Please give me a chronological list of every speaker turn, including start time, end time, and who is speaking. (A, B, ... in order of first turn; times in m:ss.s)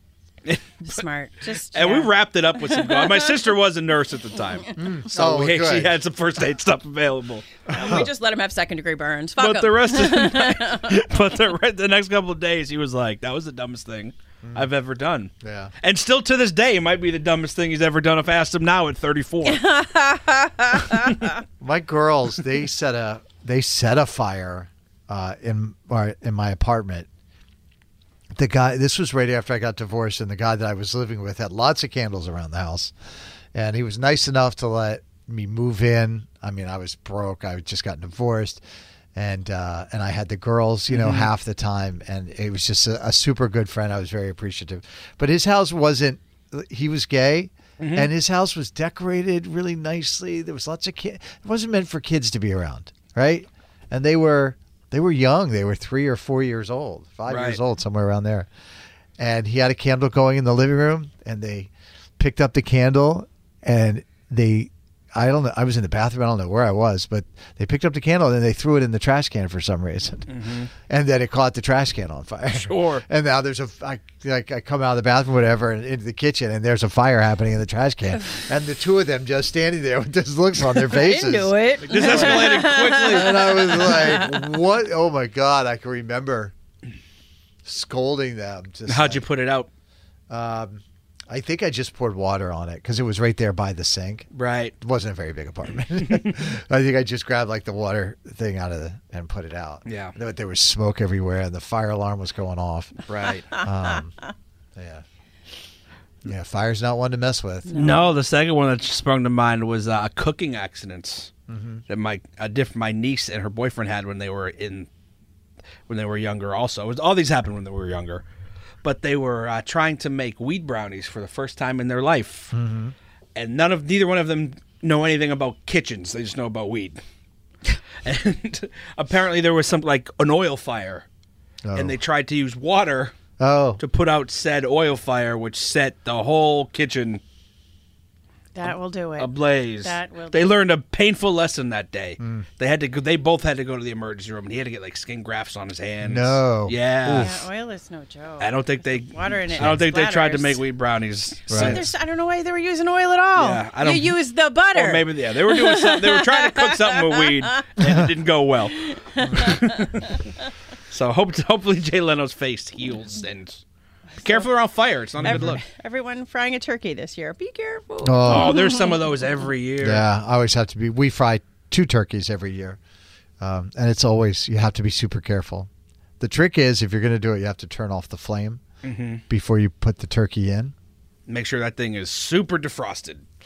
0:00.4-0:01.0 A
0:00.8-0:02.1 B
0:01.7-0:08.0 A
0:02.7-0:03.1 B
0:04.8-0:05.9 C
0:07.7-0:11.0 B
0:07.7-0:08.1 C
0:09.4-0:19.6 A
0:14.4-0:14.7 C
0:15.4-0:15.7 C
0:19.4-0:21.3 B
0:21.6-0:27.1 C
0:28.3-0:32.9 C
0:33.5-0:38.6 C
0:39.1-0:58.5 C
0:40.9-0:41.3 A
0:47.8-0:48.1 A
0:57.3-0:57.6 A
0:59.2-1:10.3 C
1:10.3-1:10.7 A
1:10.9-1:26.5 C
1:12.5-1:13.0 A
1:20.8-1:24.4 B
1:21.8-1:23.7 A
1:27.6-1:29.2 C
1:28.9-1:29.7 A
1:30.3-1:34.3 C
1:34.3-1:34.7 A
1:34.8-1:44.2 C
1:39.8-1:40.1 A
1:43.1-1:43.5 A
1:44.8-1:45.0 C
1:46.2-1:48.0 C
1:47.6-1:48.1 B
1:47.8-1:51.3 A
1:51.5-1:51.8 C
1:51.9-1:54.9 A
1:55.9-1:58.2 A
1:58.8-2:02.5 A
2:02.5-2:02.9 C
2:03.3-2:07.0 A
2:08.0-2:11.0 A
2:11.6-2:12.0 C
2:11.7-2:13.2 A
2:13.4-2:13.8 C
2:13.8-2:17.2 A
2:18.5-2:20.6 B
2:18.6-2:27.4 A
2:22.2-2:22.5 C
2:26.0-2:27.4 C
2:27.1-2:30.6 B
2:28.4-2:31.8 A
2:31.5-2:31.8 C
2:31.6-2:37.3 B
2:33.3-2:34.2 A
2:34.7-2:40.2 A
2:39.1-2:39.6 B
2:40.9-2:43.6 A
2:44.2-2:44.5 B
2:44.2-2:45.6 A
2:45.2-2:45.6 C
2:45.2-2:49.1 B
2:48.0-2:48.6 C
2:48.3-2:50.1 A
2:49.8-2:52.8 C
2:53.4-2:55.7 C
2:56.2-2:58.6 C
2:58.8-2:59.2 A
2:59.3-3:00.7 C
3:01.3-3:03.2 A